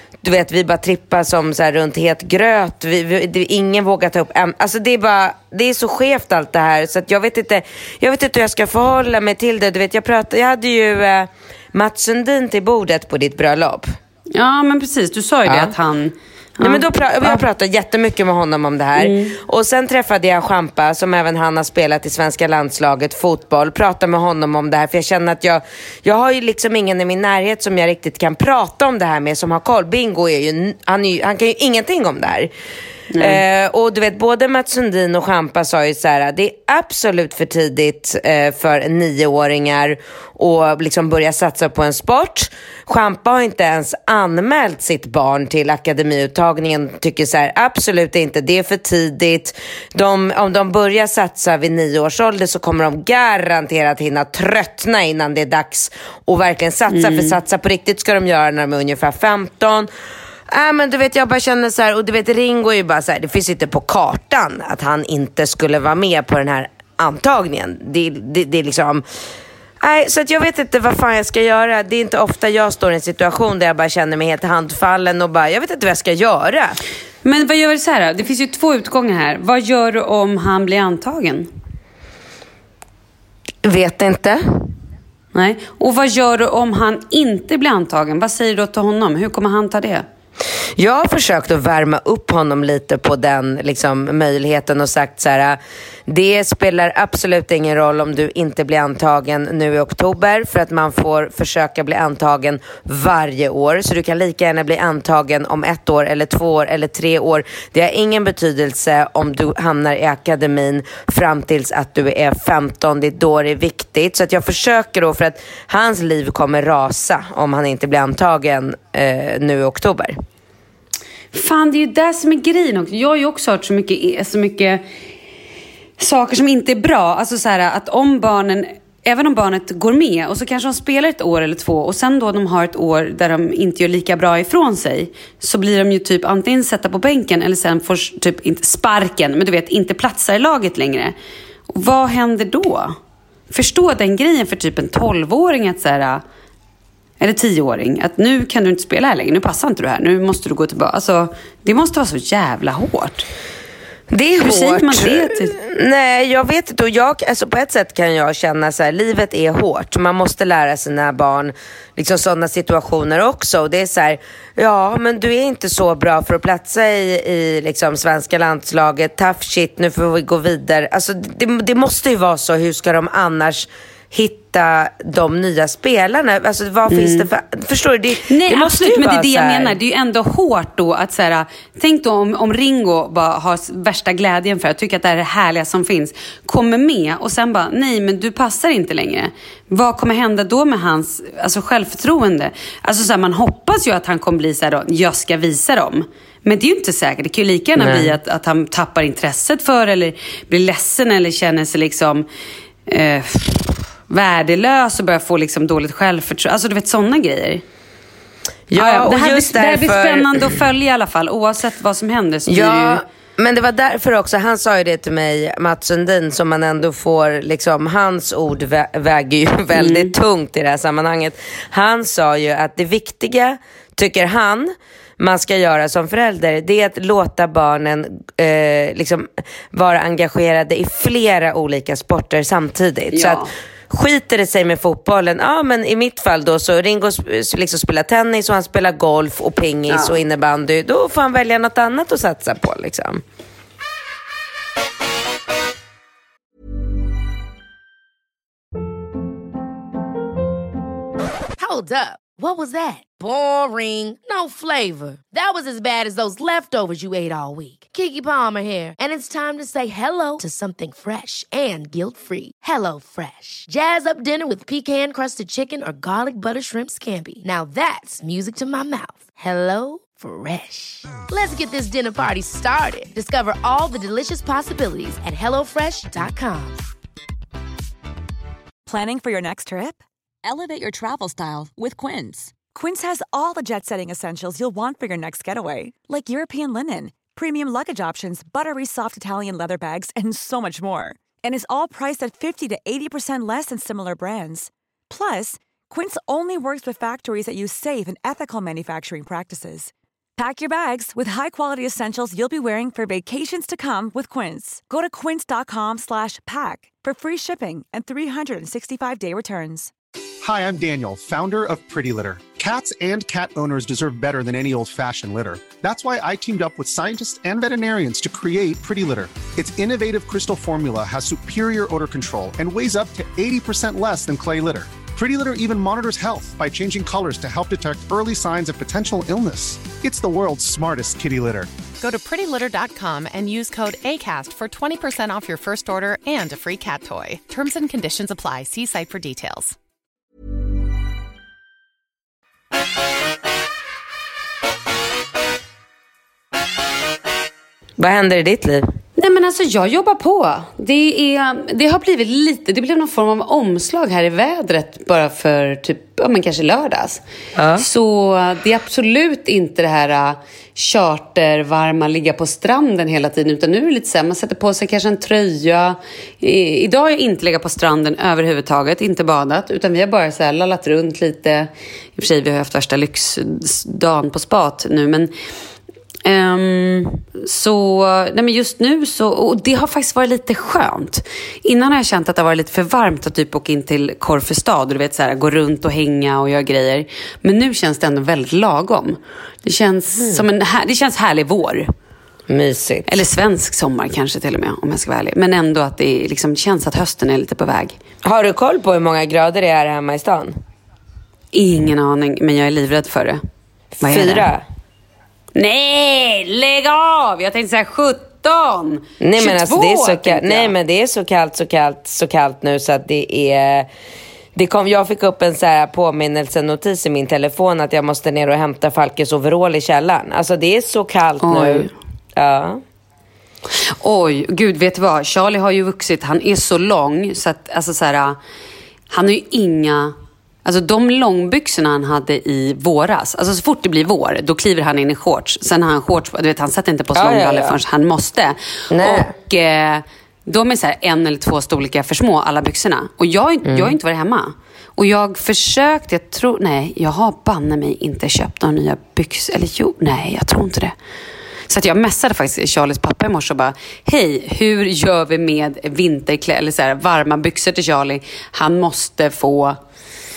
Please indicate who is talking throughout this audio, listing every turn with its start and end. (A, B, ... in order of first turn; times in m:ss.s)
0:00.2-0:13.9 A
0:14.3-0:17.4 B
0:15.5-0:15.7 A
0:16.6-0:32.5 A
0:19.0-0:19.4 B
0:33.1-0:33.4 B
0:33.2-0:59.9 A
0:56.9-0:57.4 B
1:00.5-1:09.0 A
1:09.8-1:16.8 A
1:17.2-1:21.5 B
1:23.6-1:24.4 A
1:25.3-1:30.1 B
1:30.8-2:00.2 A
2:01.3-2:04.8 B
2:06.0-2:21.2 B
2:21.7-2:23.0 B
2:23.5-2:26.2 B
2:27.2-2:33.3 B
2:34.1-2:59.8 A
2:34.4-2:35.6 B
2:56.9-2:57.3 B
2:58.3-3:22.3 B
3:17.8-3:18.2 A
3:22.9-3:27.6 B
3:28.7-3:30.5 A
3:28.8-3:33.0 B
3:32.5-4:03.2 A
3:39.7-3:40.1 B
3:53.1-3:53.5 B
3:59.9-4:00.2 B
4:11.6-4:36.8 C
4:38.9-5:09.9 D
5:10.4-5:31.7 E
5:32.0-5:39.8 F
5:48.0-5:48.9 A
5:49.2-5:57.2 B
5:57.6-5:57.9 A
5:57.8-6:15.3 B
6:16.2-6:31.9 B
6:30.2-6:30.4 A
6:32.5-6:33.1 A
6:33.1-6:38.0 B
6:38.2-6:40.6 A
6:41.5-6:43.4 B
6:44.0-6:44.6 A
6:44.0-6:44.5 B
6:45.6-6:50.7 B
6:49.2-6:53.9 A
6:54.6-7:02.8 A
7:01.4-7:01.9 B
7:03.7-7:08.4 B
7:09.1-7:30.9 B
7:17.2-7:17.8 A
7:18.9-7:19.3 A
7:23.7-7:23.9 A
7:31.7-7:39.8 B